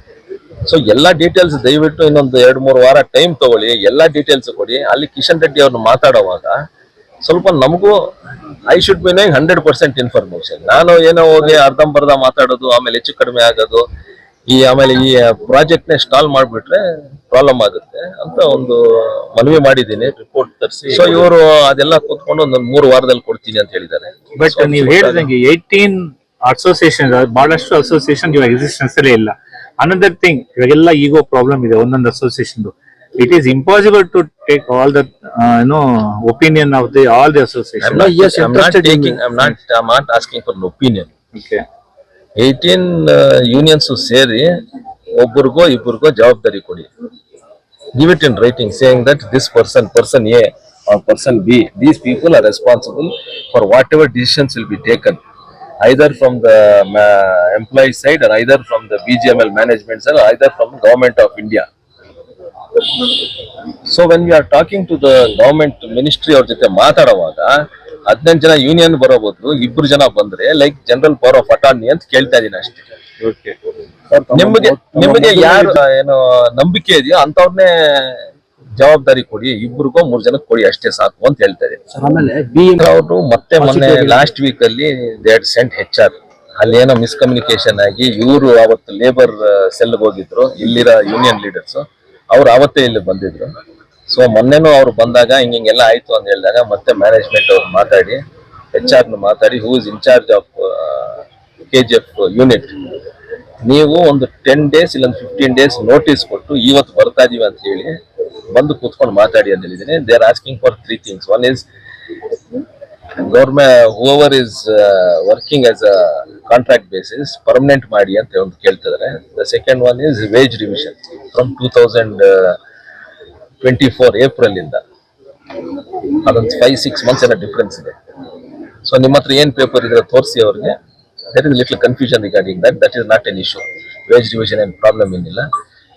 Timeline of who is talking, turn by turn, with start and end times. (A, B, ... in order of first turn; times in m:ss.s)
0:00.6-0:06.5 A
0:07.2-0:08.0 A
0:08.7-0:13.8 A
0:14.5-0:25.3 A
0:24.4-0:39.2 B
0:37.8-0:41.1 A
0:41.3-0:41.6 B
0:42.4-0:44.5 A
0:45.2-0:46.9 A
0:47.9-0:55.2 A
0:55.8-1:01.6 A
1:03.8-1:07.5 A
1:08.1-1:12.8 A
1:13.2-1:13.5 B
1:14.1-1:15.7 C
1:14.3-1:21.8 A
1:21.9-1:22.8 C
1:22.8-1:33.5 A
1:23.6-1:24.2 C
1:34.1-1:38.2 A
1:38.7-1:42.7 A
1:43.6-1:48.0 A
1:48.5-1:51.6 A
1:53.2-2:02.6 A
2:03.6-2:04.8 A
2:06.2-2:07.9 A
2:08.8-2:10.7 A
2:11.3-2:15.5 A